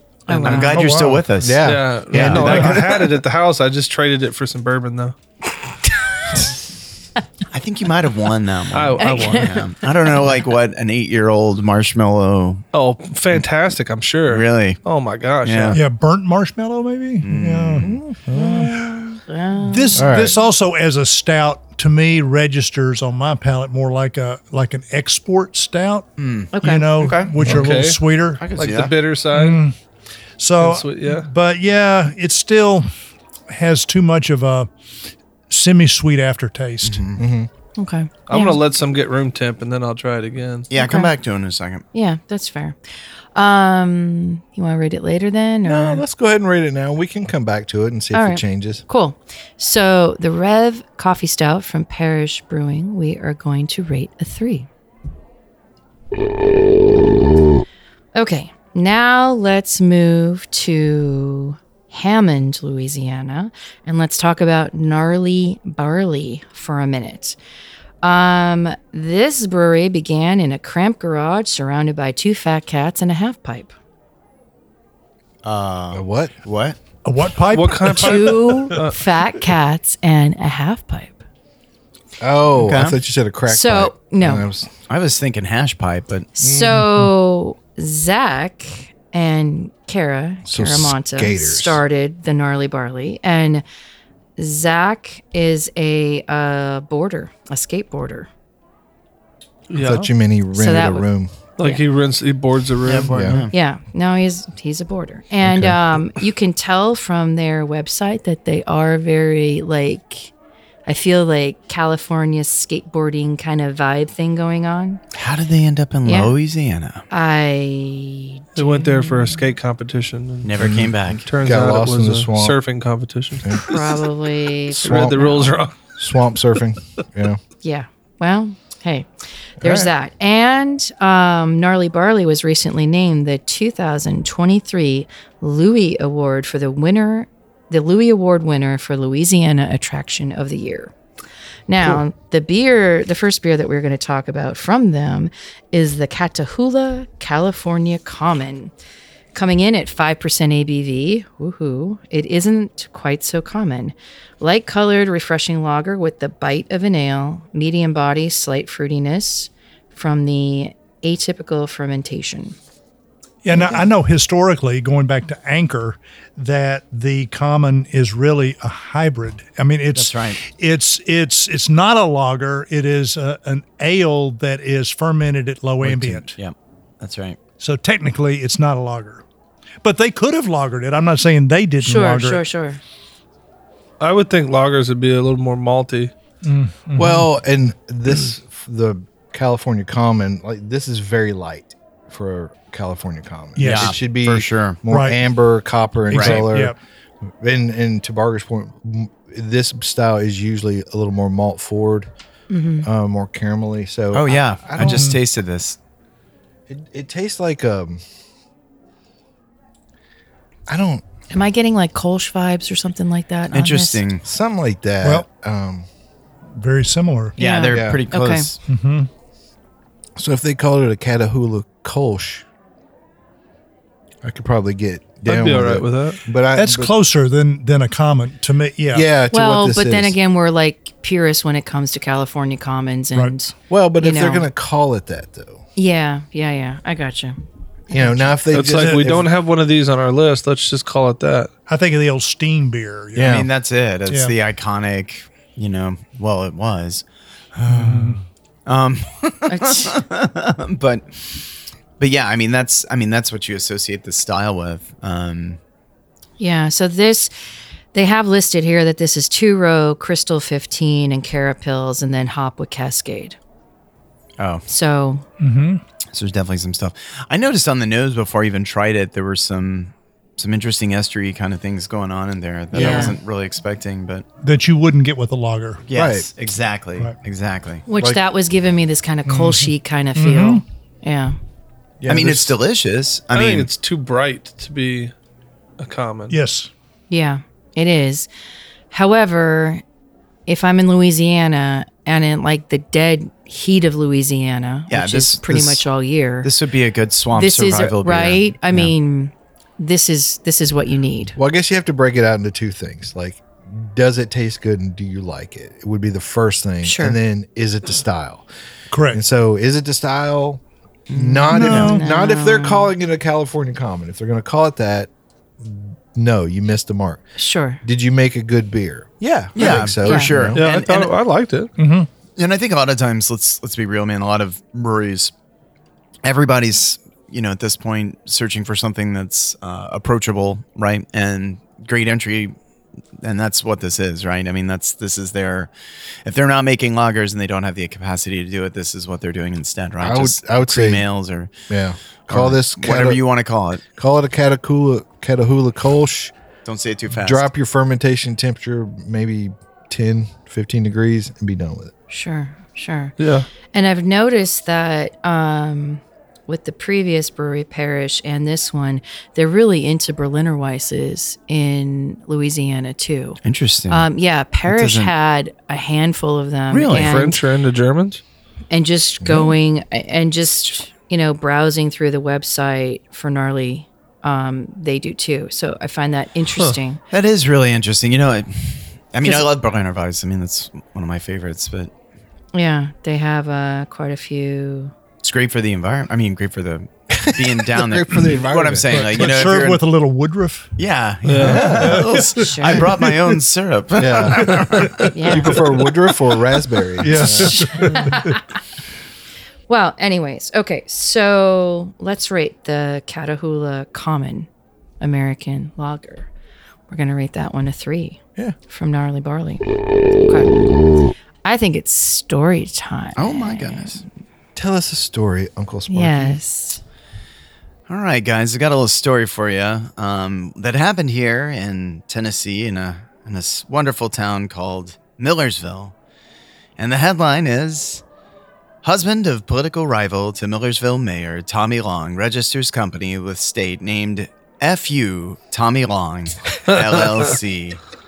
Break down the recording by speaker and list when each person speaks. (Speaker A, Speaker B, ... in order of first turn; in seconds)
Speaker A: 0.3-0.8, 9.0-9.6, 19.1-20.2, 26.5-26.9, 37.8-38.6, 40.8-41.1, 41.9-42.8, 43.4-46.0, 48.1-54.7, 58.1-67.4, 68.0-73.7, 77.9-81.2, 83.5-84.5, 86.3-93.6, 94.4-98.3, 100.5-101.1, 103.5-110.3, 110.9-115.0, 116.0-116.3, 117.1-119.4, 123.6-125.5, 127.6-140.9, 141.7-148.7, 149.3-162.6, 163.5-163.8, 181.8-182.8, 202.5-202.9, 211.3-214.0, 217.4-218.5, 229.3-234.5, 235.8-237.4, 237.9-238.3, 249.5-250.0, 256.4-257.3, 257.9-263.4, 264.7-265.2, 272.7-273.2, 277.9-281.4, 287.1-288.3, 288.9-289.8, 290.5-296.5, 297.3-301.4, 306.8-307.2, 311.6-312.9, 317.4-317.8, 320.0-320.3, 352.1-353.1, 353.7-367.4, 368.7-377.0, 382.5-384.9, 392.4-392.8, 395.1-395.6, 397.4-398.4, 399.7-404.5, 405.0-406.3, 406.9-409.7, 410.2-410.6, 411.4-414.0, 415.9-416.8
Speaker B: 0.4-3.0, 7.5-12.6, 14.3-14.8, 15.4-15.8, 17.2-17.9, 26.2-27.5, 28.4-28.9, 36.8-37.2, 40.7-41.9, 75.4-76.8, 82.6-83.0, 84.9-86.3, 102.8-103.5, 115.1-117.0, 120.4-121.3, 169.9-170.4, 175.8-177.4, 193.6-194.8, 196.1-196.4, 204.1-205.8, 213.5-214.2, 217.4-218.6, 243.2-247.1, 247.6-248.1, 248.7-251.4, 252.0-255.6, 264.4-264.6, 266.1-274.3, 275.9-277.9, 282.1-283.7, 294.9-295.8, 296.4-298.9, 311.1-311.9, 319.6-321.1, 322.4-325.3, 326.2-332.6, 333.2-335.7, 336.2-341.5, 342.3-343.8, 346.6-347.5, 363.4-364.1, 364.6-365.1, 366.7-367.2, 377.1-381.9, 385.2-389.8, 390.8-395.1, 413.1-414.0, 417.9-425.9, 426.8-428.0, 428.8-437.8
Speaker C: 0.6-1.2, 2.3-2.7, 15.7-19.0, 19.6-26.1, 26.6-28.4, 29.3-29.8, 30.4-32.9, 33.5-34.7, 35.5-37.0, 77.0-78.8, 163.4-176.4, 177.6-179.2, 179.8-182.4, 186.4-187.3, 193.6-194.0, 194.9-195.2, 196.1-196.8, 204.8-205.2, 216.6-217.4, 218.7-219.1, 226.6-229.1, 238.7-239.0, 241.7-243.4, 244.1-244.3, 247.7-248.2, 265.4-265.8, 274.4-275.9, 279.3-280.6, 286.3-286.7, 308.9-309.2, 311.5-311.9, 321.8-322.1, 388.9-390.7, 391.6-393.1, 397.0-398.4
Speaker D: 1.4-2.7, 17.8-18.9, 19.9-20.4, 37.2-37.5, 45.6-48.8, 75.9-76.3, 82.2-84.7, 86.4-86.8, 90.5-91.8, 99.8-101.3, 103.1-103.4, 105.4-105.8, 120.6-122.6, 124.8-127.4, 129.6-129.9, 186.9-196.8, 197.4-202.1, 202.8-205.2, 206.7-208.0, 210.7-211.0, 214.2-215.9, 217.7-218.0, 220.2-222.4, 224.2-226.9, 228.9-230.2, 233.7-235.6, 237.9-239.3, 243.1-243.5, 272.7-273.1, 275.9-276.3, 282.0-282.6, 301.4-308.4, 309.1-317.2, 317.8-320.6, 340.0-341.1, 341.7-343.2, 343.9-346.3, 347.1-351.9, 369.2-369.5, 387.1-389.5, 391.4-392.1, 394.0-397.9, 414.6-416.4
Speaker E: 1.6-5.1, 8.7-9.6, 12.7-15.8, 27.4-28.0, 28.6-29.6, 30.6-31.3, 38.3-40.7, 77.5-79.1, 99.7-100.1, 101.6-103.4, 118.6-124.0, 124.8-125.8, 184.0-186.1, 225.2-226.2, 238.5-241.5, 283.3-285.1, 285.8-286.4, 320.5-321.7, 353.2-353.4, 366.9-368.2, 391.2-391.8, 436.8-437.2